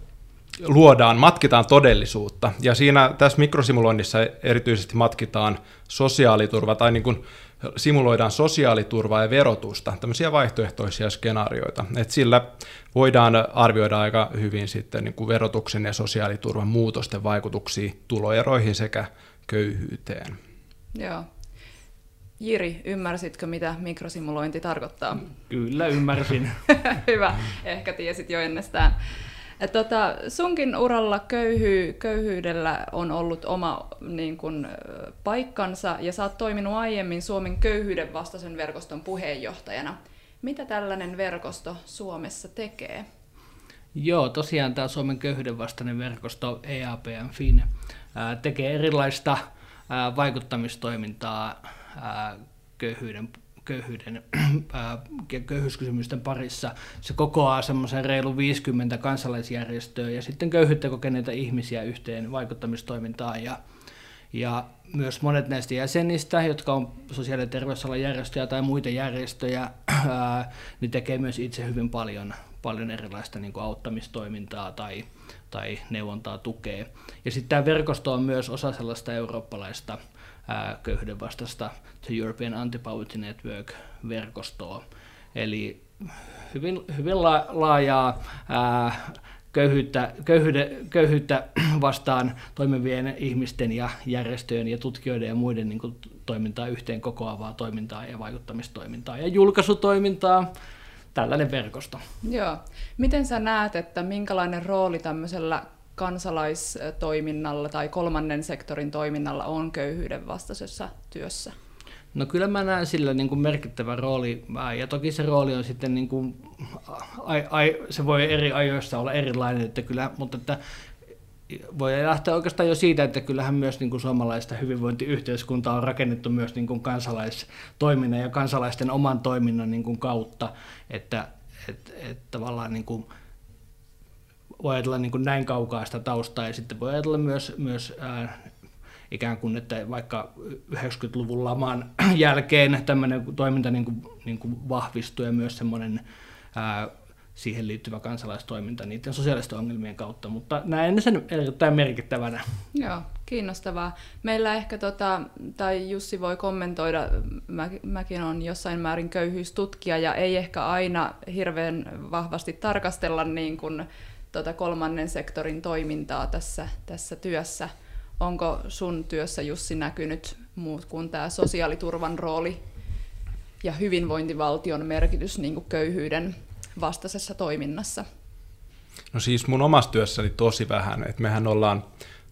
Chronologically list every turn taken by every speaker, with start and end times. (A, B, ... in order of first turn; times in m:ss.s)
0:00.6-0:20.4 A
0:20.9-0:21.3 B
0:22.4-0:25.2 B
0:25.4-0:26.6 C
0:26.7-0:43.0 B
0:43.9-1:03.6 C
1:04.3-1:40.5 C
1:41.1-1:42.0 C
1:42.2-1:51.5 B
1:52.1-2:00.6 C
2:01.5-2:13.1 C
2:14.6-2:18.5 C
2:19.1-2:32.6 C
2:32.7-2:52.6 B
2:53.6-2:58.0 B
2:59.1-3:01.8 A